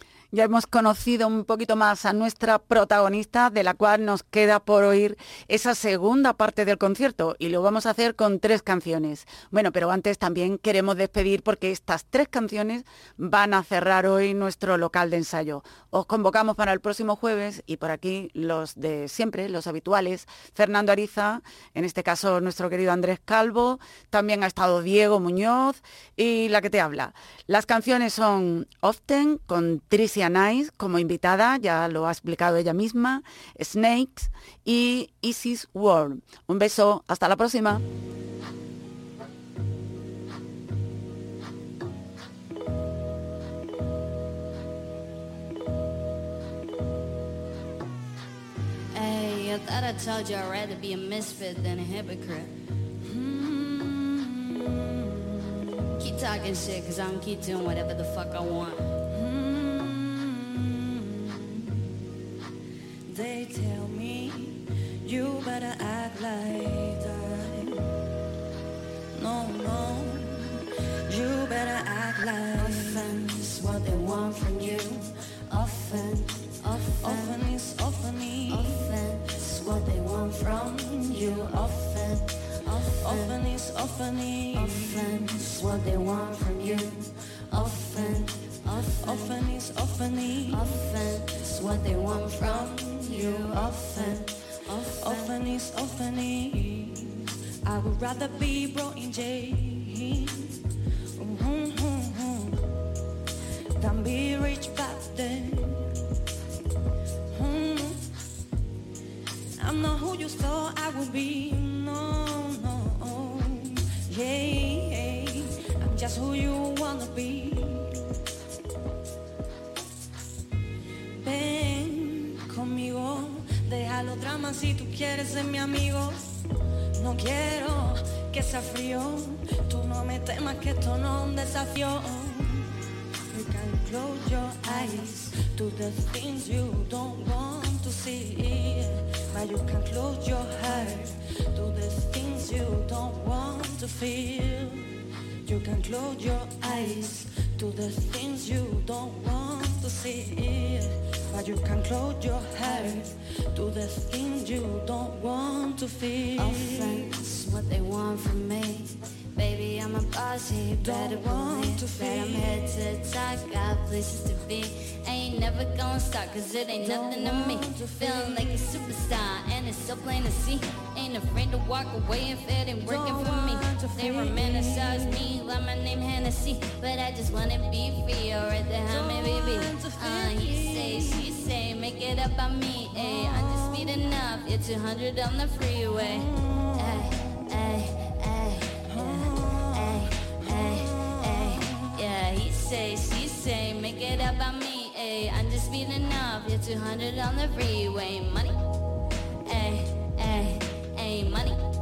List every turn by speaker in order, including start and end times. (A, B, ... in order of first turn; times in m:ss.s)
0:00.3-0:37.8 A
0:48.9-0:52.5 B
0:53.0-0:55.9 C
0:56.0-0:58.9 B
0:59.1-1:01.9 C
1:03.1-1:07.9 C
1:09.1-1:13.5 C
1:12.5-1:17.4 B
1:15.5-1:16.0 C
1:17.0-1:19.0 C
1:18.5-1:23.4 B
1:19.5-1:22.0 C
1:22.9-1:25.9 C
1:24.5-1:29.4 B
1:27.6-1:28.2 C
1:29.0-1:31.0 C
1:30.5-1:35.4 B
1:31.7-1:40.6 C
1:41.2-1:42.6 C
1:43.8-1:46.0 C
1:47.3-1:48.0 C
1:49.6-1:58.0 C
2:01.2-2:06.2 C
2:07.0-2:12.7 C
2:13.3-2:24.9 C
2:14.6-2:15.3 B
2:20.7-2:21.0 B
2:25.4-2:37.2 C
2:26.6-2:27.3 B
2:32.6-2:33.1 B
2:36.4-3:18.6 B
2:40.8-2:43.0 C
2:46.8-2:49.0 C
2:52.8-2:55.3 C
2:58.8-3:01.5 C
3:02.9-3:04.0 C
3:05.9-3:07.7 C
3:08.8-3:12.2 C
3:19.4-3:21.6 B